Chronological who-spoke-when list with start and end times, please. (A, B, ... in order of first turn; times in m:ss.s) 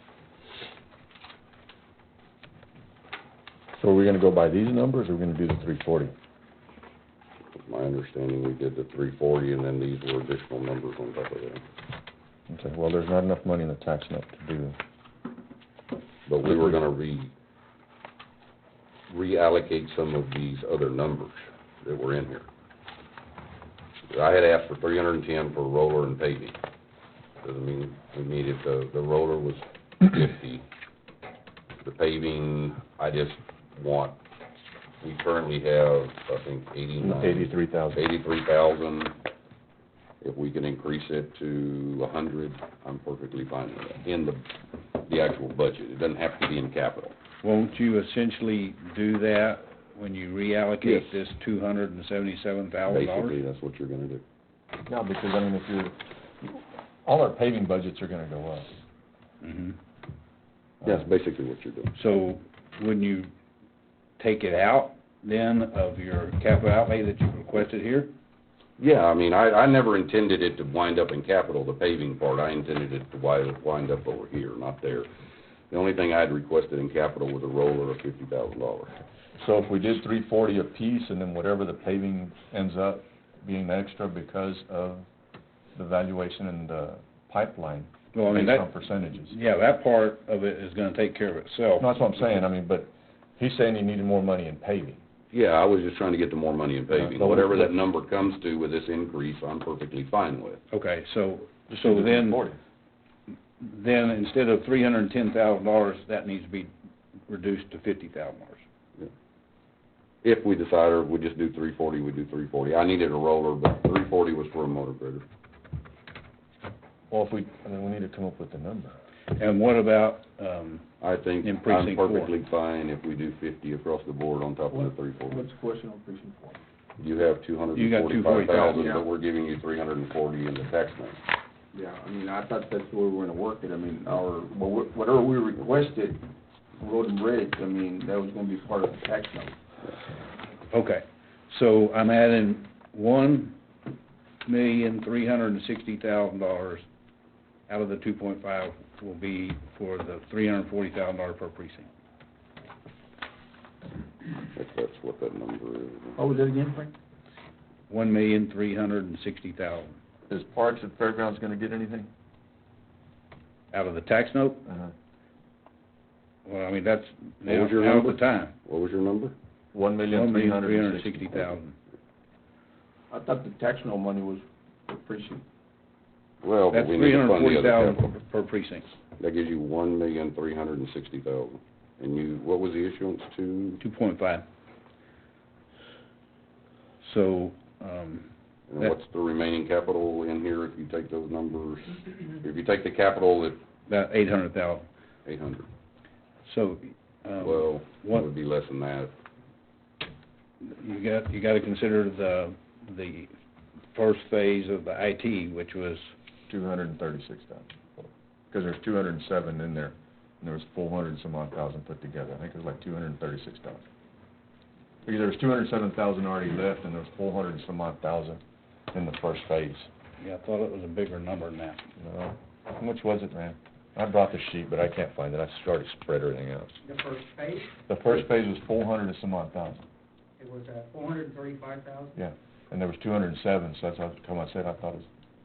0:03.7-0:06.1 A
0:07.6-0:11.6 B
0:12.5-0:14.8 A
0:16.3-0:17.3 B
0:16.4-0:16.8 A
0:19.1-0:22.4 B
0:24.1-0:26.6 B
0:27.4-0:30.6 B
0:31.8-0:34.2 B
0:35.0-0:39.2 B
0:37.0-0:38.0 A
0:40.2-0:47.2 B
0:47.4-0:53.4 C
0:50.8-0:51.1 B
0:52.9-0:54.2 B
0:54.9-0:58.7 A
0:59.4-0:59.8 C
1:00.8-1:01.1 A
1:00.8-1:01.9 B
1:01.9-1:03.3 C
1:04.2-1:08.1 C
1:08.8-1:15.1 B
1:15.7-1:19.0 B
1:19.4-1:25.1 A
1:25.7-1:29.4 A
1:28.1-1:28.7 C
1:29.2-1:31.9 C
1:31.8-1:35.0 A
1:35.3-1:40.6 B
1:36.9-1:37.8 A
1:40.7-1:42.4 C
1:41.7-1:42.6 A
1:43.6-1:46.7 C
1:47.3-1:48.6 C
1:50.2-1:55.2 B
1:57.1-1:59.0 A
1:59.3-2:00.9 C
2:01.0-2:05.4 B
2:01.4-2:02.3 C
2:04.7-2:06.6 D
2:07.0-2:11.2 B
2:07.7-2:08.9 C
2:08.7-2:09.0 D
2:11.7-2:16.2 D
2:16.8-2:19.6 D
2:20.7-2:23.6 C
2:24.4-2:26.8 C
2:27.7-2:31.9 C
2:34.5-2:36.2 B
2:36.2-2:36.9 D
2:37.9-2:39.9 C
2:40.3-2:42.1 A
2:43.7-2:44.6 C
2:44.6-2:44.9 A
2:46.4-2:48.5 C
2:47.4-2:49.3 B
2:49.7-2:51.6 A
2:50.1-2:51.7 C
2:53.1-2:55.4 D
2:56.4-2:58.0 B
2:56.7-2:58.8 C
2:59.2-3:03.8 B
3:03.8-3:04.4 C
3:07.0-3:08.3 C
3:08.7-3:13.6 B
3:13.9-3:14.8 C
3:15.2-3:15.7 B
3:16.4-3:18.2 C
3:17.4-3:19.1 B
3:20.6-3:23.3 C
3:23.9-3:26.1 C
3:26.5-3:33.8 A
3:35.0-3:38.4 A
3:38.9-3:39.9 A
3:40.2-3:41.8 C
3:42.0-3:46.7 A
3:46.8-3:47.8 E
3:47.9-3:49.8 A
3:50.4-3:52.1 E
3:52.2-3:55.1 A